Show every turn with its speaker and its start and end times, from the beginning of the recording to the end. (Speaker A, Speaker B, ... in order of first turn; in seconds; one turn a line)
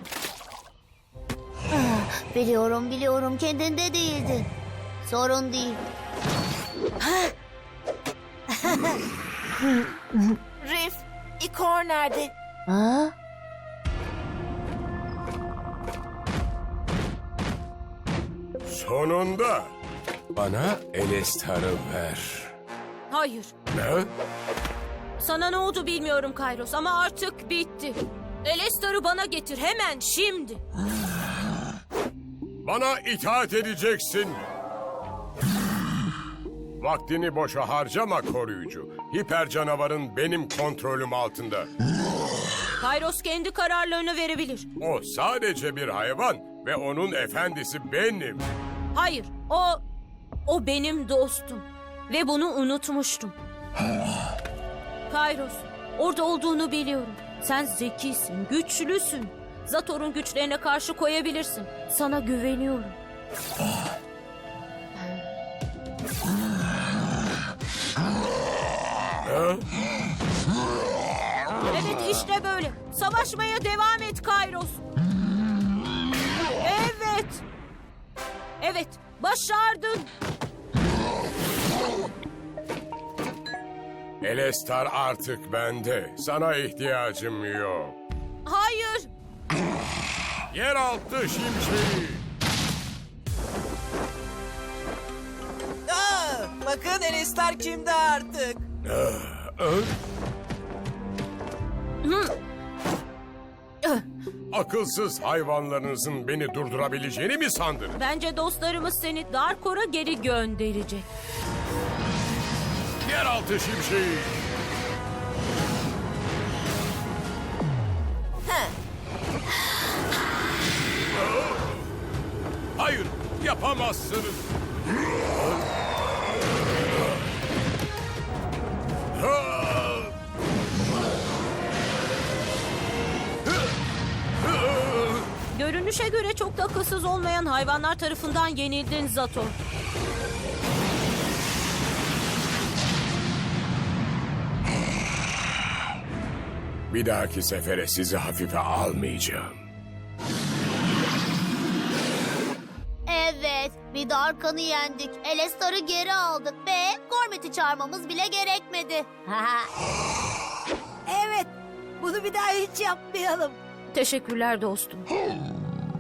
Speaker A: 1.7-4.5
Speaker A: 5.0-5.8
Speaker B: 7.0-7.3
Speaker B: 10.6-12.3
Speaker A: 12.7-13.1
Speaker C: 18.7-19.7
Speaker C: 20.3-22.5
Speaker D: 23.1-23.5
Speaker C: 23.7-24.1
Speaker D: 25.2-30.6
Speaker C: 32.6-34.4
Speaker C: 36.8-41.7
Speaker D: 42.8-44.7
Speaker C: 44.8-48.5
Speaker D: 48.9-49.8
Speaker D: 50.5-53.4
Speaker D: 55.1-63.0
Speaker C: 69.3-69.6
Speaker D: 71.7-74.8
Speaker D: 76.6-77.4
Speaker D: 78.6-80.1
Speaker C: 84.2-88.0
Speaker D: 88.5-89.1
Speaker C: 90.5-92.2
Speaker E: 95.9-98.6
Speaker C: 98.8-99.9
Speaker D: 102.0-102.3
Speaker C: 104.5-108.0
Speaker D: 107.9-111.1
Speaker C: 113.0-114.3
Speaker B: 118.5-118.7
Speaker C: 121.2-121.9
Speaker C: 122.8-124.5
Speaker C: 125.4-125.7
Speaker C: 129.2-130.1
Speaker C: 134.6-135.2
Speaker D: 135.5-139.6
Speaker C: 146.9-149.6
Speaker A: 153.1-159.7
Speaker F: 161.1-163.6
Speaker D: 163.9-165.1